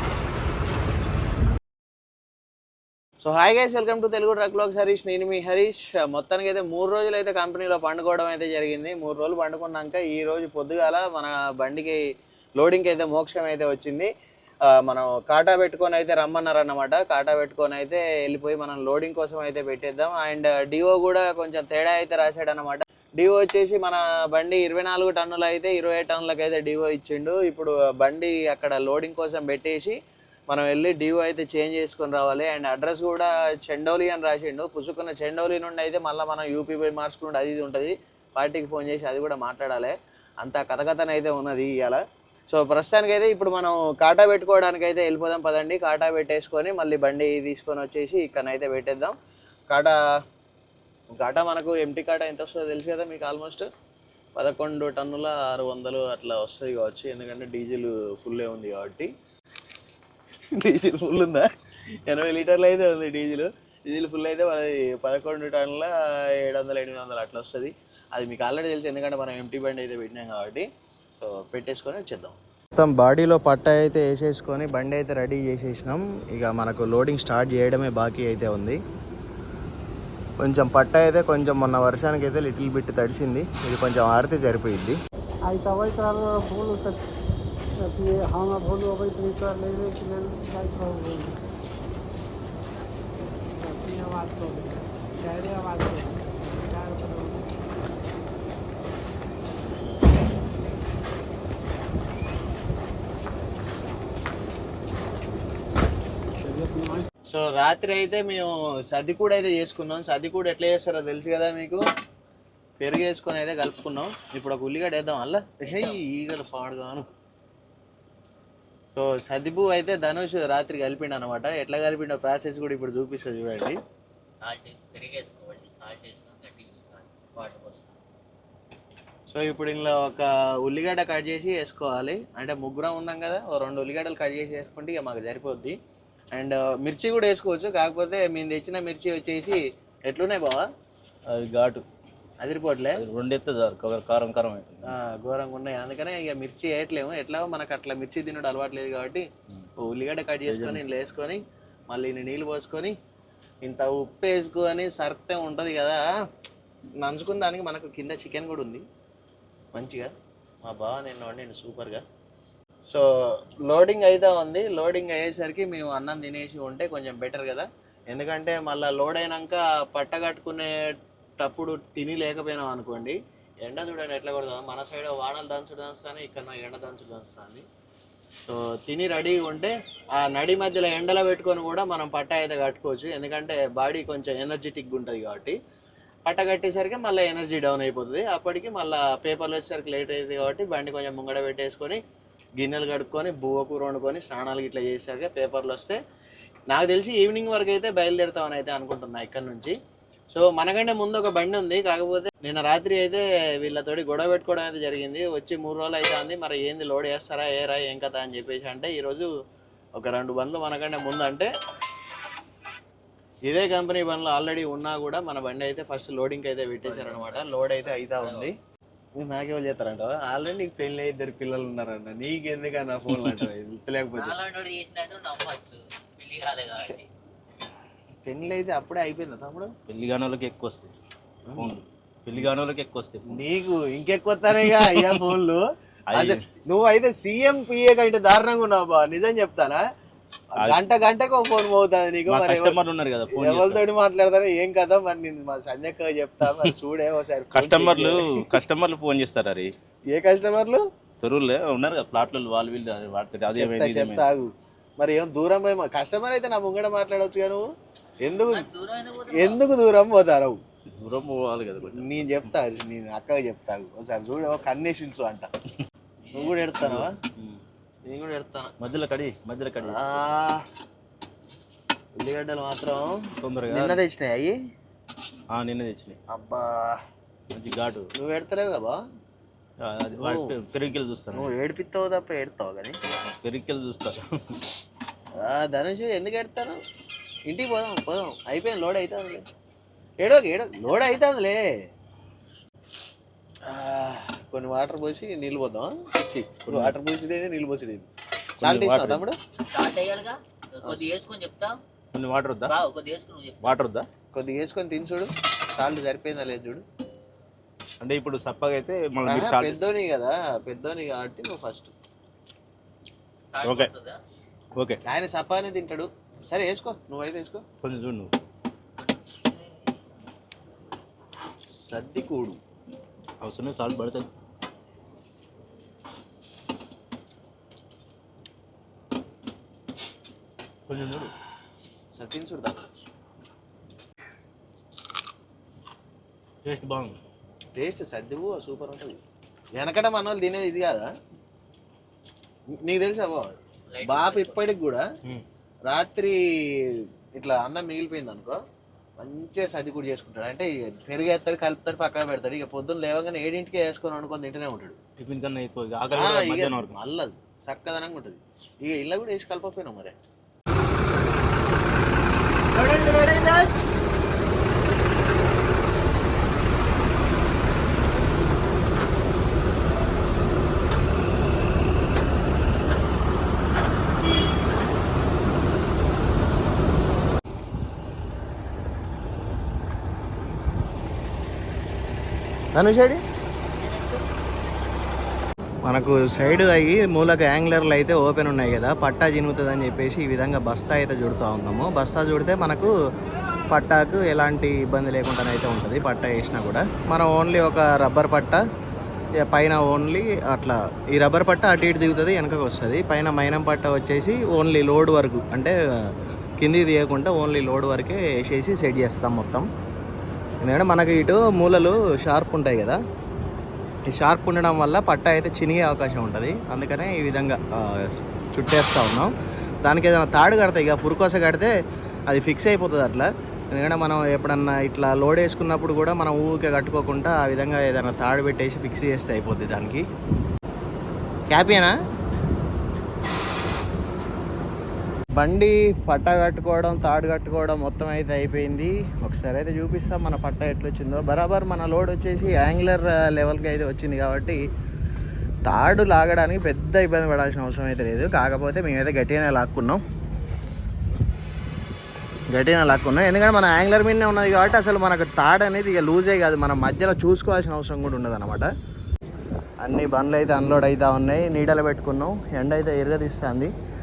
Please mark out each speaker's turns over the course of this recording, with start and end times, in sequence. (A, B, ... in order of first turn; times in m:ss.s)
0:03.2-0:12.0 A
0:12.6-0:14.1 A
0:14.7-0:30.0 A
0:30.5-0:49.2 A
0:49.7-0:50.0 A
0:51.1-0:53.7 A
0:54.4-0:59.1 A
1:00.5-1:01.5 A
1:02.1-1:10.7 A
1:11.2-1:18.8 A
1:20.4-1:25.0 A
1:25.5-1:27.0 B
1:27.8-1:31.4 B
1:33.5-1:37.5 B
1:46.4-1:47.1 B
1:47.3-1:51.8 A
1:52.8-1:57.1 A
1:55.7-1:56.0 C
1:59.0-2:03.8 A
2:04.4-2:07.9 C
2:09.3-2:15.8 A
2:16.3-2:20.7 A
2:21.3-2:21.8 D
2:22.4-2:23.0 A
2:23.0-2:24.9 D
2:24.9-2:29.3 A
2:29.8-2:33.0 A
2:30.5-2:30.8 D
2:33.6-2:36.0 A
2:37.0-2:38.8 A
2:39.7-2:42.0 A
2:43.6-2:57.6 A
2:58.5-3:05.6 A
3:06.2-3:12.0 A
3:12.6-3:16.0 A
3:16.7-3:19.8 A
3:20.3-3:29.3 A
3:30.0-3:31.5 A
3:33.5-3:38.5 A
3:36.8-3:38.5 C
3:39.2-3:44.4 A
3:43.1-3:43.4 D
3:44.2-3:47.1 C
3:48.2-3:49.7 A
3:49.9-3:50.9 D
3:51.5-3:51.8 A
3:51.6-3:53.4 D
3:53.3-3:59.8 A
3:54.5-3:55.3 D
3:56.1-3:56.4 D
4:00.5-4:02.8 A
4:02.3-4:03.8 D
4:03.3-4:08.5 A
4:07.5-4:09.7 D
4:10.1-4:10.8 A
4:11.2-4:14.3 D
4:13.6-4:17.7 A
4:18.2-4:18.7 A
4:18.5-4:19.6 C
4:19.3-4:20.6 A
4:21.0-4:22.5 D
4:22.0-4:25.5 A
4:26.2-4:26.7 C
4:26.3-4:27.1 A
4:26.8-4:27.6 D
4:28.1-4:28.7 A
4:28.8-4:30.2 D
4:29.8-4:30.6 A
4:32.2-4:34.6 A
4:33.4-4:34.0 D
4:35.5-4:36.2 D
4:36.3-4:37.0 A
4:37.5-4:38.1 D
4:38.1-4:39.0 A
4:39.8-4:41.5 D
4:40.2-4:40.6 A
4:41.3-4:43.0 A
4:43.3-4:44.7 D
4:45.4-4:46.8 A
4:47.5-4:49.4 A
4:50.2-4:51.7 A
4:53.6-4:58.1 A
4:56.7-4:57.0 D
4:58.6-4:59.2 D
4:58.6-4:59.4 A
4:59.6-5:01.8 C
5:02.1-5:02.7 D
5:02.7-5:03.7 C
5:03.6-5:04.1 D
5:04.3-5:06.8 A
5:08.0-5:09.9 D
5:09.2-5:11.9 A
5:13.5-5:14.2 C
5:13.6-5:13.9 D
5:14.8-5:15.0 D
5:15.0-5:17.6 A
5:17.8-5:18.3 D
5:21.7-5:22.6 A
5:23.4-5:24.3 D
5:30.9-5:31.3 D
5:32.1-5:32.9 A
5:36.6-5:37.2 D
5:37.8-5:39.2 A
5:39.8-5:41.1 A
5:42.8-5:45.0 A
5:43.9-5:44.7 C
5:45.9-5:48.6 A
5:49.2-5:55.0 A
5:55.2-5:57.0 D
5:56.1-6:00.1 A
6:02.7-6:03.9 A
6:22.8-6:23.2 A
6:25.8-6:32.9 A
6:33.7-6:38.6 A
6:39.4-6:49.7 A
6:50.6-6:53.0 A
6:54.1-6:59.3 A
6:59.8-7:01.7 A
7:02.3-7:10.0 A
7:11.5-7:12.0 A
7:15.4-7:24.6 A
7:25.7-7:30.0 A
7:32.5-7:38.7 A
7:39.8-7:43.7 A